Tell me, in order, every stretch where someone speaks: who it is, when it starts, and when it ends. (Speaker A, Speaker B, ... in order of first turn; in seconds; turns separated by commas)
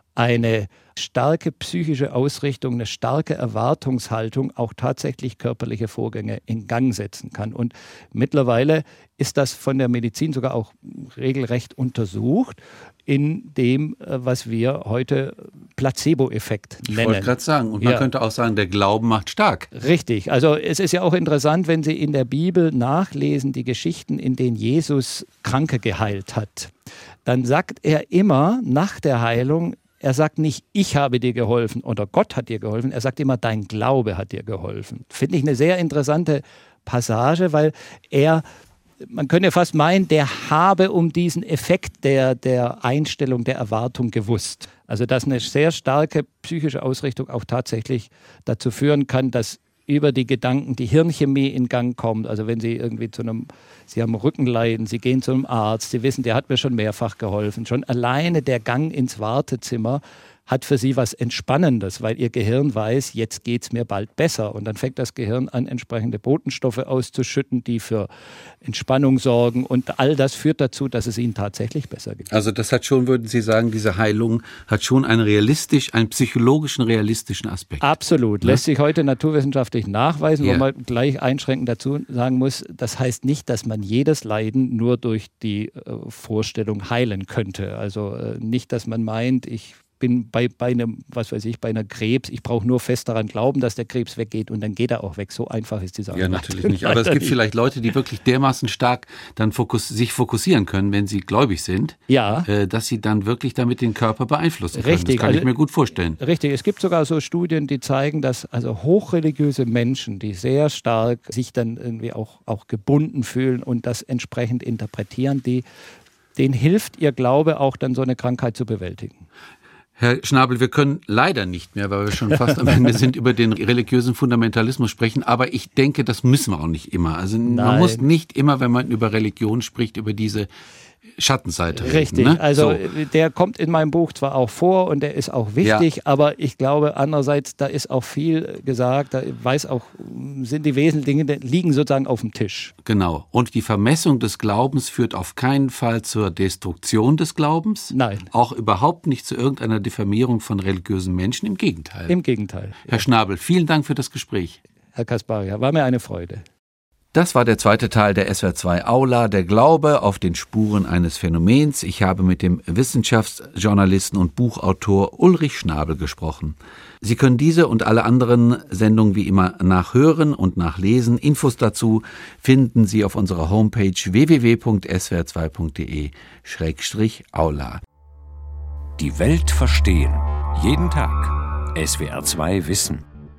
Speaker A: 0.1-18.1, Speaker B: 16.9-19.7, Speaker A: 19.7-26.7, Speaker A: 27.2-38.4, Speaker A: 39.0-68.1, Speaker A: 68.6-72.3, Speaker B: 72.3-77.9, Speaker A: 77.8-97.3, Speaker B: 80.4-80.6, Speaker B: 96.1-106.2, Speaker A: 102.1-102.5, Speaker A: 104.7-105.5, Speaker A: 106.2-115.6, Speaker A: 116.3-119.2, Speaker B: 120.0-130.5, Speaker A: 127.4-128.1, Speaker B: 131.2-132.8, Speaker A: 131.7-142.7, Speaker B: 142.8-152.1, Speaker A: 147.9-148.3, Speaker A: 152.1-153.0, Speaker B: 152.9-154.6, Speaker A: 154.9-156.4, Speaker B: 157.1-177.8, Speaker C: 179.0-183.0